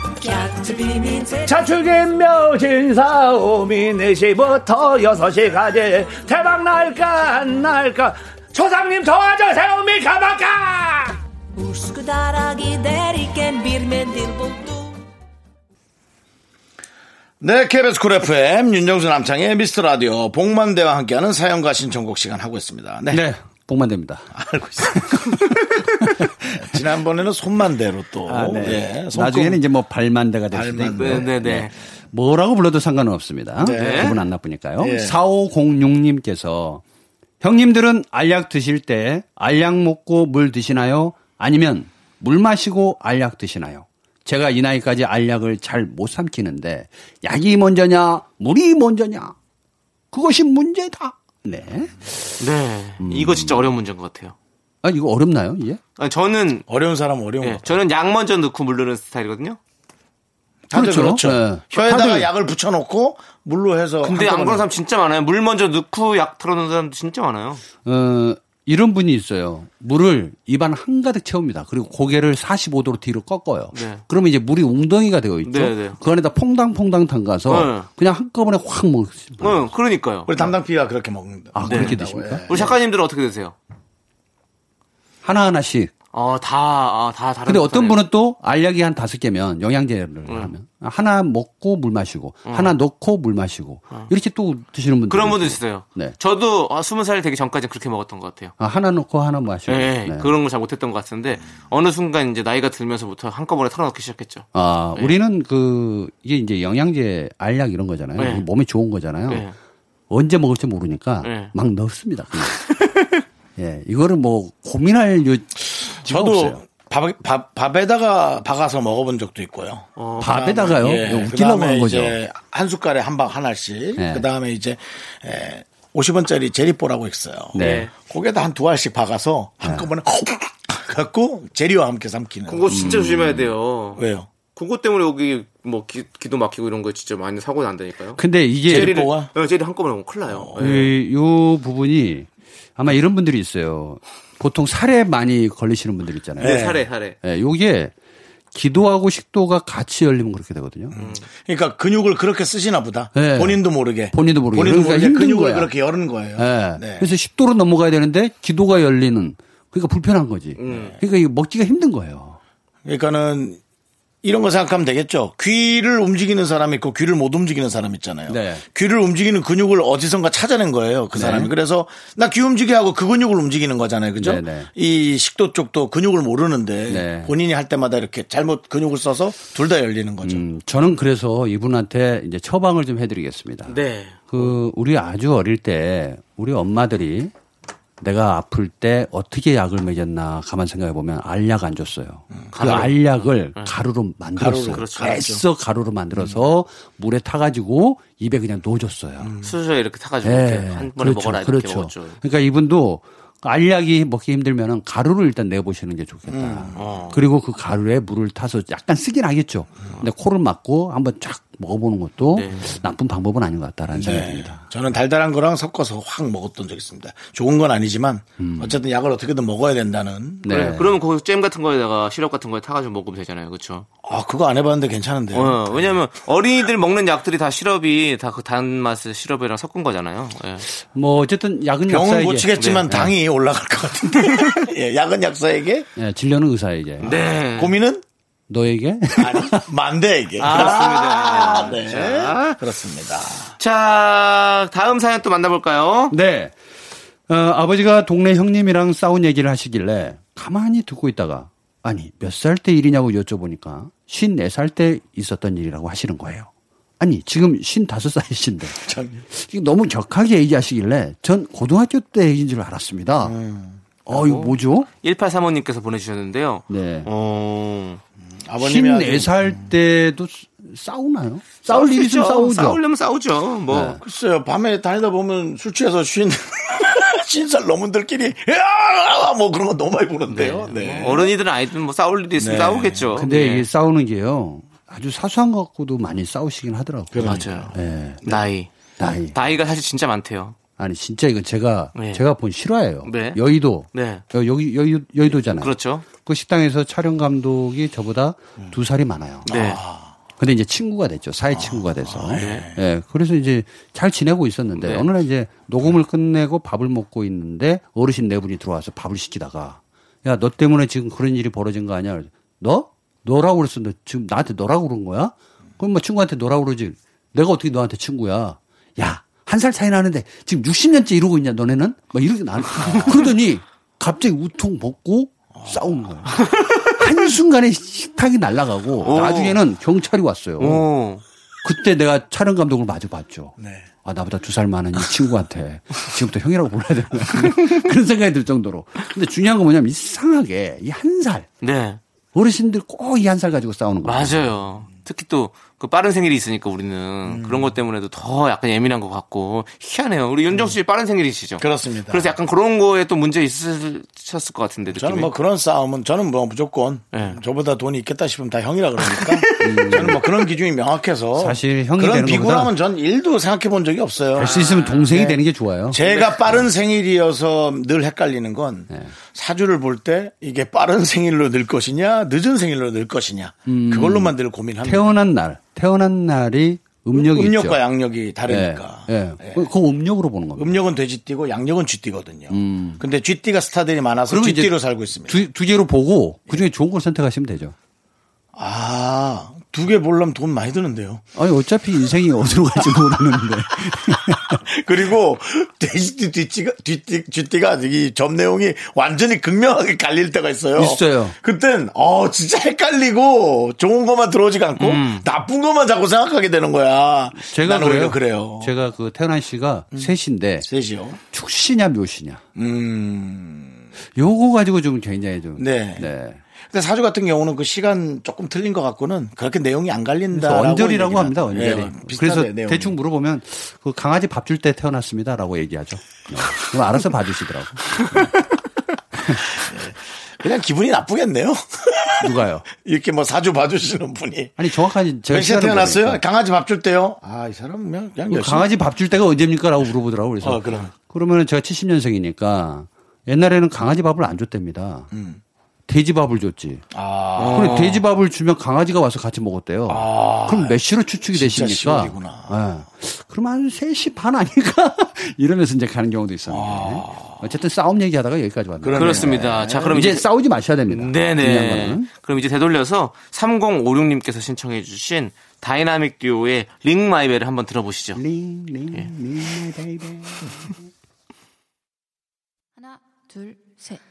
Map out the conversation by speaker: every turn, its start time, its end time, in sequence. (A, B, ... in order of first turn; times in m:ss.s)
0:00.2-0:01.8 A
0:01.5-0:11.2 B
0:11.5-0:15.1 A
0:17.4-0:23.2 C
0:23.1-0:24.3 D
0:24.3-0:25.2 C
0:25.0-0:26.3 D
0:26.5-0:29.6 C
0:28.3-0:36.8 D
0:30.5-0:31.3 C
0:30.9-0:31.7 E
0:33.6-0:34.1 C
0:33.6-0:34.2 E
0:34.8-0:35.2 C
0:37.4-0:49.4 D
0:50.1-0:52.1 D
0:52.4-0:54.4 E
0:53.0-0:53.7 D
0:54.8-0:55.8 D
0:56.0-0:56.7 E
0:56.7-0:57.8 C
0:57.4-0:59.6 E
1:00.7-1:04.7 C
1:00.7-1:02.3 D
1:04.0-1:07.6 E
1:07.8-1:19.7 D
1:13.7-1:14.0 E
1:15.4-1:16.0 E
1:17.5-1:17.9 E
1:19.4-1:20.3 E
1:20.3-1:22.7 C
1:21.6-1:22.7 D
1:21.7-1:22.0 E
1:22.5-1:23.6 E
1:25.2-1:25.9 D
1:26.1-1:28.0 E
1:27.5-1:36.2 D
1:30.3-1:30.5 E
1:32.5-1:32.7 E
1:35.1-1:38.5 E
1:38.6-1:40.3 D
1:39.7-1:45.2 E
1:44.5-1:49.5 D
1:48.2-1:48.5 E
1:49.3-1:49.6 E
1:50.1-1:52.7 D
1:51.2-1:51.5 E
1:52.8-1:53.1 E
1:53.6-1:56.6 D
1:55.8-2:13.0 C
2:00.0-2:01.1 E
2:00.2-2:02.2 D
2:04.0-2:04.2 D
2:07.5-2:07.9 D
2:07.6-2:07.9 E
2:09.6-2:09.9 D
2:12.5-2:14.0 E
2:12.7-2:13.5 D
2:14.0-2:14.3 C
2:14.6-2:21.0 E
2:18.2-2:19.0 D
2:18.7-2:19.3 C
2:20.3-2:20.6 C
2:20.6-2:27.9 D
2:26.4-2:27.2 E
2:26.4-2:26.8 C
2:28.5-2:30.9 D
2:30.9-2:37.1 C
2:31.0-2:31.2 E
2:33.2-2:35.7 D
2:36.4-2:42.4 D
2:40.6-2:41.0 E
2:42.8-2:43.6 C
2:44.2-3:00.4 C
2:48.3-2:48.6 D
2:51.1-2:51.5 D
2:54.2-2:54.7 D
2:56.9-2:57.3 D
3:00.2-3:03.8 D
3:03.7-3:04.5 E
3:04.3-3:07.3 D
3:08.0-3:19.3 D
3:12.5-3:13.8 E
3:14.4-3:15.4 C
3:14.7-3:15.2 E
3:19.2-3:19.6 C
3:19.4-3:22.2 E
3:20.2-3:34.6 D
3:26.3-3:27.0 C
3:26.8-3:27.2 E
3:32.4-3:32.8 E
3:33.9-3:40.5 C
3:38.4-3:38.7 D
3:40.4-3:40.9 D
3:40.5-3:43.9 E
3:44.0-3:46.0 C
3:45.3-3:50.7 E
3:50.8-3:53.2 D
3:51.9-3:55.9 C
3:52.6-3:52.9 E
3:56.0-3:57.2 D
3:57.0-3:57.8 E
3:57.0-3:58.0 C
3:58.5-3:59.6 D
3:59.2-4:03.5 C
4:00.4-4:01.3 D
4:00.4-4:02.6 E
4:03.6-4:06.2 E
4:06.1-4:06.6 D
4:07.3-4:18.8 D
4:18.8-4:19.2 C
4:19.4-4:23.4 D
4:23.2-4:23.8 C
4:24.1-4:24.9 D
4:24.1-4:28.0 E
4:26.7-4:27.1 D
4:28.3-4:29.6 C
4:28.6-4:32.8 D
4:31.7-4:34.0 E
4:33.7-4:34.0 D
4:34.0-4:41.3 C
4:40.3-4:43.7 E
4:42.4-4:43.1 C
4:43.2-4:48.3 D
4:47.1-4:47.8 C
4:47.2-4:48.7 E
4:49.0-4:49.4 D
4:49.3-4:50.6 E
4:50.8-4:59.5 D
4:52.0-4:52.2 E
4:53.0-4:53.4 E
4:53.9-4:54.2 E
4:55.3-4:56.1 E
4:59.4-5:00.1 C
4:59.5-4:59.8 E
5:00.4-5:30.9 D
5:01.6-5:02.8 C
5:02.4-5:02.7 E
5:04.8-5:05.1 E
5:25.5-5:25.8 C
5:29.0-5:29.6 E
5:30.6-5:31.2 E
5:31.6-5:41.5 D
5:33.6-5:33.9 C
5:41.6-5:42.0 E
5:42.3-5:44.5 D
5:44.0-5:55.3 E
5:47.3-5:47.7 C
5:51.6-5:52.4 C
5:54.9-6:04.6 C
5:57.1-5:57.4 E
5:59.0-5:59.8 E
5:59.6-6:00.2 D
6:01.4-6:02.7 D
6:04.4-6:05.3 E
6:04.4-6:06.0 D
6:05.1-6:05.4 C
6:05.9-6:15.1 C
6:06.0-6:06.4 E
6:13.7-6:17.8 D
6:17.1-6:19.7 C
6:18.5-6:20.8 D
6:20.6-6:25.4 C
6:22.5-6:23.0 D
6:24.3-6:24.7 D
6:25.3-6:27.8 D
6:28.6-6:31.2 C
6:31.4-6:34.6 D
6:34.6-6:48.7 C
6:40.8-6:41.4 D
6:44.8-6:45.3 E
6:47.4-6:50.7 D
6:50.6-6:51.2 C
6:51.3-6:52.4 D
6:52.6-6:53.8 C
6:54.2-6:56.4 D
6:55.6-6:56.1 C
6:56.7-7:03.0 C
7:00.3-7:08.3 D
7:09.6-7:14.6 C
7:12.2-7:12.7 D
7:14.6-7:16.2 D
7:15.3-7:18.7 C
7:18.3-7:25.1 D
7:20.4-7:20.9 C
7:25.1-7:25.4 C
7:25.9-7:26.9 D
7:26.9-7:27.8 C
7:27.4-7:28.0 E
7:27.5-7:42.1 D
7:29.9-7:30.8 C
7:31.3-7:32.6 C
7:36.5-7:37.4 C
7:38.8-7:40.0 C
7:38.9-7:40.3 E
7:40.9-7:48.2 E
7:48.2-7:50.7 D
7:53.3-7:54.0 A